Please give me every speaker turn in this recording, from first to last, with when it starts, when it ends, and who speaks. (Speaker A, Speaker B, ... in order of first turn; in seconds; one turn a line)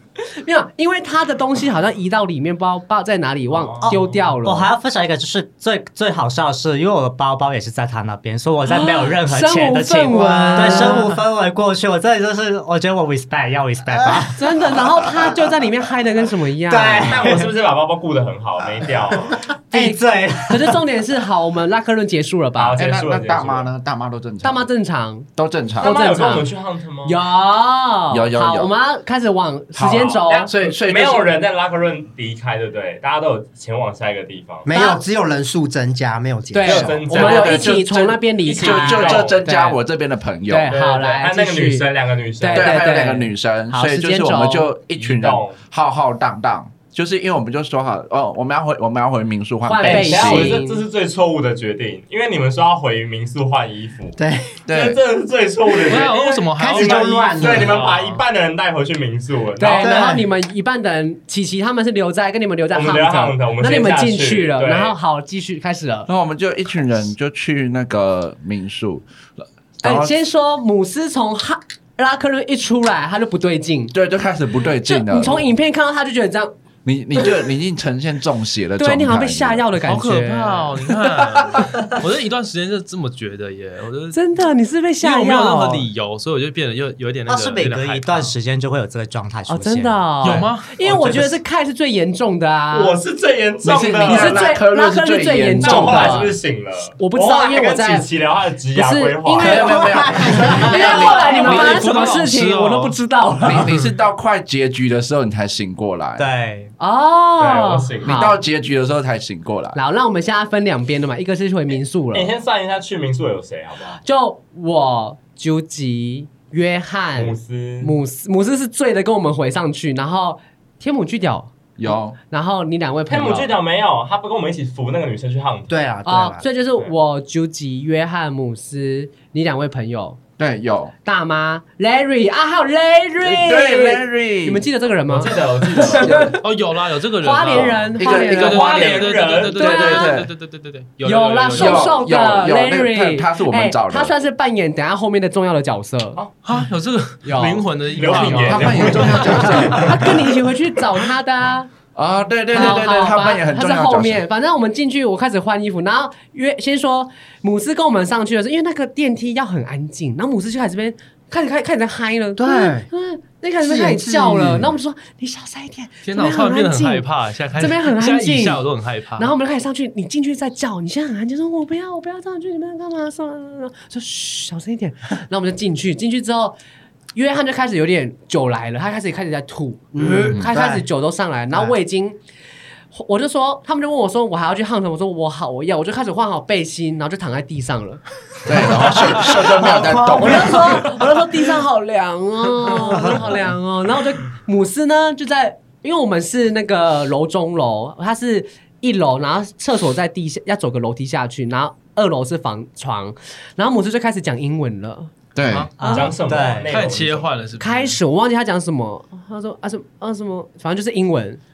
Speaker A: 0.4-4.7
Speaker B: 3.5-4.2
Speaker C: 3.8-15.3
Speaker A: 8.7-11.1
Speaker D: 10.3-10.9
Speaker A: 14.3-17.3
Speaker C: 16.7-17.4
Speaker B: 16.8-19.4
Speaker C: 19.7-20.8
Speaker A: 19.7-22.8
Speaker B: 22.6-23.7
Speaker E: 22.7-24.6
Speaker A: 24.4-26.5
Speaker E: 25.4-25.9
Speaker B: 25.8-27.2
Speaker A: 27.0-30.5
Speaker E: 28.1-28.7
Speaker E: 29.7-31.3
Speaker B: 30.0-34.7
Speaker D: 34.6-37.0
Speaker A: 34.7-35.0
Speaker A: 36.5-39.8
Speaker B: 36.6-37.8
Speaker E: 37.0-40.7
Speaker B: 38.4-39.4
Speaker A: 40.5-41.9
Speaker B: 40.7-42.8
Speaker A: 42.4-44.7
Speaker E: 42.5-50.6
Speaker B: 45.0-45.6
Speaker A: 49.6-50.8
Speaker B: 49.8-54.2
Speaker D: 54.2-54.6
Speaker E: 54.7-55.0
Speaker B: 54.7-60.0
Speaker F: 55.9-58.2
Speaker D: 55.9-57.8
Speaker A: 59.6-66.1
Speaker D: 59.6-60.2
Speaker B: 62.7-65.0
Speaker E: 66.1-69.1
Speaker E: 69.8-70.1
Speaker A: 69.8-73.9
Speaker E: 73.9-75.5
Speaker A: 74.8-76.5
Speaker E: 76.8-79.7
Speaker A: 78.8-81.0
Speaker F: 79.8-84.2
Speaker A: 84.1-85.9
Speaker F: 85.0-88.3
Speaker C: 87.3-90.1
Speaker A: 89.5-93.0
Speaker F: 90.2-91.3
Speaker B: 92.7-94.5
Speaker E: 93.6-96.3
Speaker A: 94.0-96.4
Speaker B: 95.6-100.0
Speaker A: 97.0-98.1
Speaker A: 98.7-103.7
Speaker D: 99.4-101.6
Speaker E: 99.4-101.8
Speaker F: 100.8-103.0
Speaker E: 103.4-106.3
Speaker C: 106.2-106.7
Speaker A: 106.8-108.4
Speaker B: 107.4-108.3
Speaker E: 108.0-109.8
Speaker A: 109.7-112.3
Speaker B: 112.1-114.0
Speaker A: 114.0-123.5
Speaker B: 117.2-117.9
Speaker E: 121.8-122.2
Speaker B: 123.1-125.7
Speaker D: 125.7-126.4
Speaker A: 126.0-130.2
Speaker E: 130.4-130.9
Speaker A: 131.0-136.4
Speaker E: 133.2-134.7
Speaker B: 135.1-136.2
Speaker E: 135.9-136.3
Speaker F: 136.4-142.0
Speaker A: 137.2-138.7
Speaker E: 137.5-140.3
Speaker B: 138.3-139.7
Speaker A: 139.6-140.1
Speaker A: 141.0-146.2
Speaker E: 141.5-144.1
Speaker F: 146.4-149.4
Speaker A: 147.2-151.7
Speaker B: 147.9-150.1
Speaker E: 148.3-150.2
Speaker E: 151.9-154.2
Speaker A: 152.5-168.6
Speaker D: 162.4-162.9
Speaker D: 163.6-164.7
Speaker F: 166.0-169.3
Speaker A: 169.2-176.6
Speaker A: 177.1-182.2
Speaker D: 179.9-180.8
Speaker A: 182.9-188.0
Speaker E: 188.4-190.9
Speaker A: 188.6-188.9
Speaker C: 189.6-190.4
Speaker A: 190.1-205.1
Speaker E: 205.3-205.7
Speaker C: 205.8-206.8
Speaker B: 205.8-207.3
Speaker A: 205.8-206.1
Speaker F: 206.7-208.0
Speaker A: 207.6-211.4